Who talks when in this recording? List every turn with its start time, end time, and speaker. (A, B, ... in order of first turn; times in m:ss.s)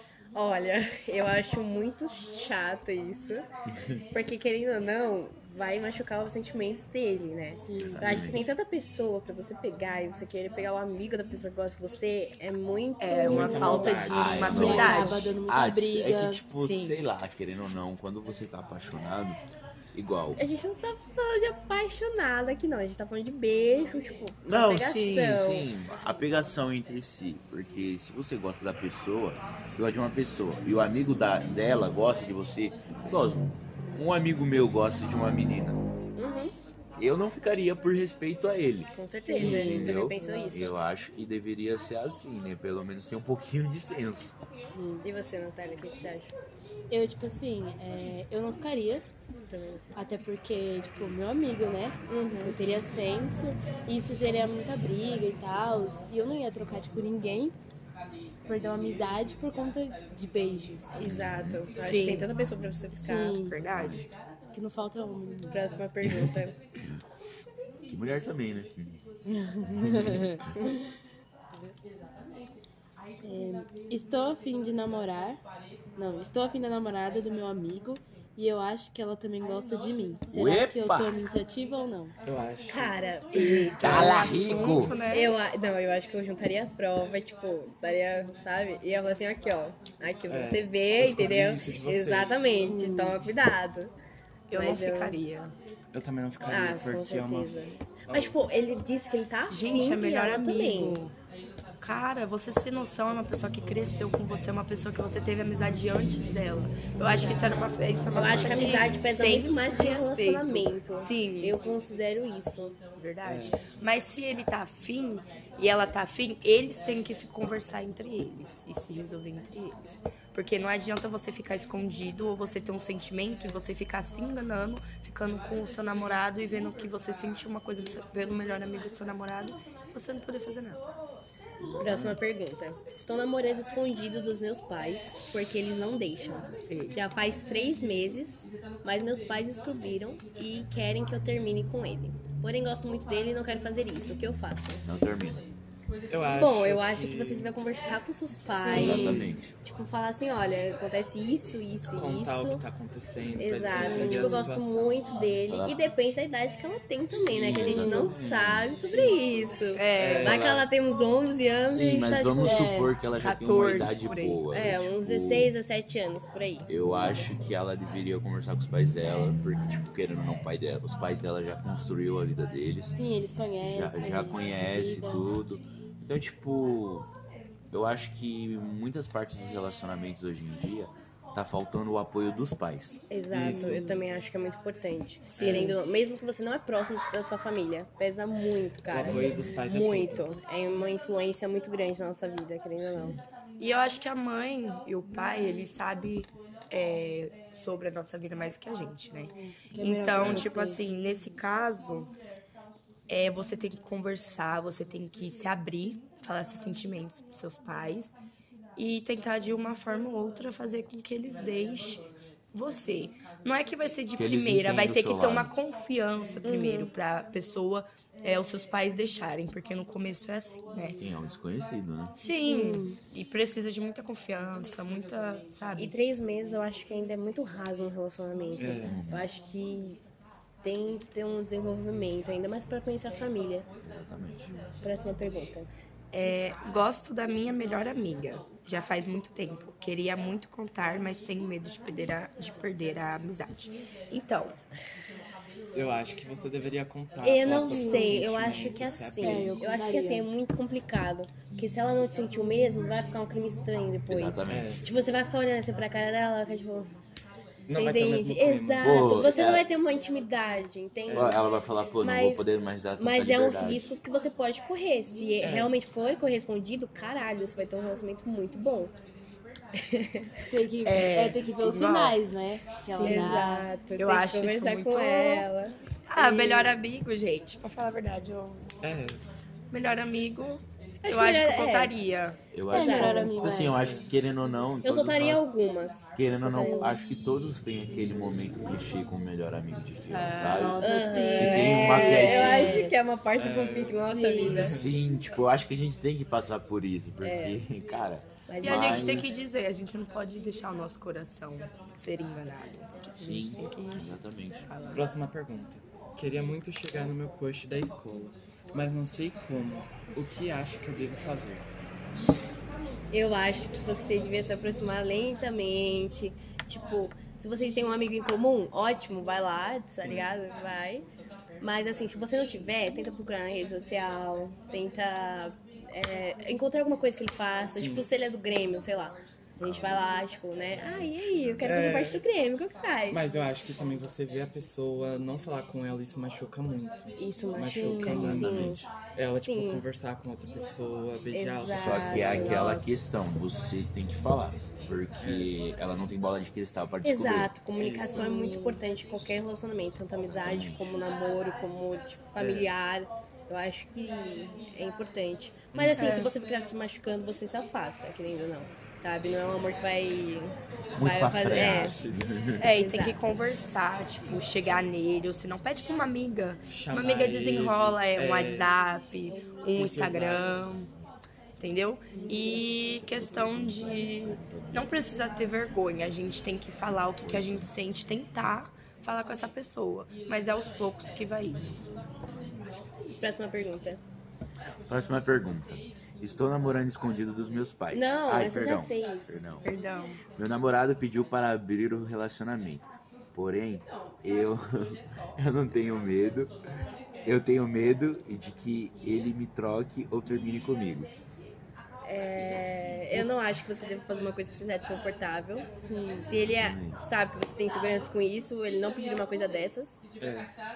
0:00.3-0:03.5 A
0:04.1-0:15.3 A
0:07.6-0:08.5 B
0:07.8-0:08.5 C
0:13.0-0:15.3 D
0:13.2-0:14.6 E
0:13.9-0:19.4 C
0:14.3-0:16.5 B
0:16.5-0:17.0 D
0:19.9-0:20.4 C
0:20.4-0:25.7 A
0:24.5-0:35.8 C
0:36.2-0:36.5 A
0:37.0-0:44.4 C
0:38.9-0:40.8 A
0:39.2-0:40.7 B
0:44.6-0:45.1 B
0:45.0-0:46.4 A
0:46.9-0:49.1 B
0:49.5-0:49.9 A
0:50.0-0:57.6 B
0:52.1-0:52.6 A
0:58.5-1:01.1 B
1:00.9-1:03.4 A
1:01.0-1:01.7 C
1:01.7-1:02.3 D
1:03.0-1:03.5 B
1:03.4-1:04.1 D
1:03.7-1:04.1 C
1:04.5-1:05.8 B
1:05.5-1:06.6 A
1:06.0-1:06.4 C
1:07.9-1:09.0 C
1:09.3-1:10.7 B
1:09.8-1:10.2 C
1:13.2-1:15.4 B
1:16.0-1:22.2 B
1:20.3-1:21.2 C
1:22.2-1:22.9 E
1:22.7-1:23.6 A
1:23.3-1:25.4 D
1:23.7-1:25.0 C
1:23.8-1:24.2 E
1:24.5-1:33.9 A
1:30.3-1:32.5 E
1:32.6-1:33.2 B
1:34.5-1:35.6 D
1:34.5-1:35.2 A
1:35.9-1:38.4 E
1:36.4-1:41.0 A
1:39.5-1:41.2 D
1:41.8-1:51.6 D
1:48.1-1:52.8 A
1:48.3-1:48.8 E
1:53.0-2:10.9 D
1:53.2-1:53.7 E
2:11.6-2:12.2 C
2:11.8-2:24.8 A
2:16.7-2:17.0 D
2:24.8-2:25.5 C
2:26.1-2:27.6 E
2:26.3-2:32.6 A
2:28.6-2:29.3 B
2:28.7-2:29.6 C
2:29.1-2:29.3 E
2:31.9-2:35.4 E
2:33.4-2:42.9 A
2:33.8-2:34.2 B
2:35.3-2:35.8 C
2:37.2-2:39.5 C
2:37.2-2:37.9 E
2:39.7-2:40.4 D
2:40.0-2:40.5 E
2:40.3-2:40.7 C
2:41.6-2:45.5 C
2:42.4-2:44.5 D
2:44.5-2:47.4 A
2:46.7-2:53.0 C
2:52.9-2:55.3 B
2:53.6-2:57.1 C
2:57.7-3:03.0 C
3:03.1-3:13.2 A
3:03.3-3:04.1 E
3:05.3-3:05.8 D
3:05.4-3:05.8 E
3:08.8-3:10.4 E
3:09.0-3:09.5 C
3:12.8-3:13.2 E
3:13.6-3:22.1 D
3:19.3-3:20.8 B
3:20.2-3:20.5 E
3:23.1-3:28.2 D
3:28.8-3:41.0 D
3:34.2-3:35.5 C
3:36.4-3:36.9 A
3:41.0-3:42.2 C
3:42.2-3:45.9 D
3:42.4-3:43.0 B
3:45.8-3:50.0 A
3:48.6-3:49.1 E
3:48.8-3:49.3 C
3:50.6-3:53.7 A
3:53.8-3:54.5 C
3:54.5-3:54.7 B
3:54.8-3:55.7 A
3:56.1-4:04.6 D
4:05.7-4:09.6 E
4:07.2-4:16.9 A
4:07.5-4:08.2 B
4:09.2-4:10.3 B
4:14.1-4:14.8 C
4:14.5-4:14.9 E
4:17.7-4:19.1 E
4:17.7-4:21.4 A
4:18.8-4:19.7 C
4:21.1-4:21.4 E
4:21.1-4:23.9 C
4:22.0-4:29.0 A
4:25.4-4:25.8 E
4:29.9-4:30.2 A
4:30.5-4:33.7 B
4:30.8-4:32.2 D
4:32.8-4:33.3 D
4:32.9-4:36.8 A
4:34.0-4:35.5 D
4:36.1-4:38.7 D
4:38.8-4:39.3 E
4:39.7-4:42.4 D
4:41.0-4:41.9 A
4:42.5-4:45.5 C
4:42.7-4:43.8 B
4:42.7-4:43.4 A
4:43.0-4:43.6 D
4:43.7-4:44.1 E
4:44.8-4:46.9 A
4:46.1-4:52.9 C
4:46.4-4:47.0 B
4:50.1-4:53.0 B
4:50.8-4:54.8 A
4:53.3-4:55.0 E
4:54.0-4:54.8 B
4:54.6-4:59.4 C
4:57.2-4:57.6 A
4:58.5-4:59.4 A
4:58.6-5:05.1 D
5:03.1-5:05.0 C
5:04.9-5:11.7 E
5:13.1-5:21.1 A
5:20.0-5:20.4 E
5:21.6-5:33.2 A
5:27.7-5:28.1 E
5:29.6-5:30.0 C
5:30.8-5:31.6 C
5:31.6-5:32.2 E
5:33.1-5:42.7 E
5:37.2-5:38.6 B
5:37.2-5:38.8 A
5:38.3-5:38.9 C
5:39.4-5:39.8 A
5:41.3-5:42.9 A
5:41.7-5:47.7 C
5:45.2-5:45.6 E
5:47.0-6:02.0 A
5:47.7-5:48.3 E
5:48.1-5:48.8 B
5:50.2-5:51.0 C
5:52.4-5:52.7 E
5:55.7-5:56.1 E
5:56.0-5:56.3 D
6:01.0-6:02.7 C
6:01.4-6:02.3 E
6:02.6-6:10.9 D
6:02.7-6:03.3 A
6:06.7-6:08.8 E
6:09.3-6:09.9 B
6:09.6-6:10.7 E
6:11.6-6:21.9 D
6:12.1-6:12.7 B
6:12.8-6:15.0 C
6:17.2-6:17.7 C
6:22.2-6:22.9 C
6:23.2-6:24.0 A
6:24.9-6:29.6 C
6:27.9-6:29.5 A
6:29.6-6:30.2 D
6:30.3-6:36.5 C
6:37.2-6:41.1 C
6:42.0-6:50.0 A
6:43.1-6:43.4 B
6:45.8-6:46.4 B
6:46.5-6:47.0 C
6:50.2-6:50.5 E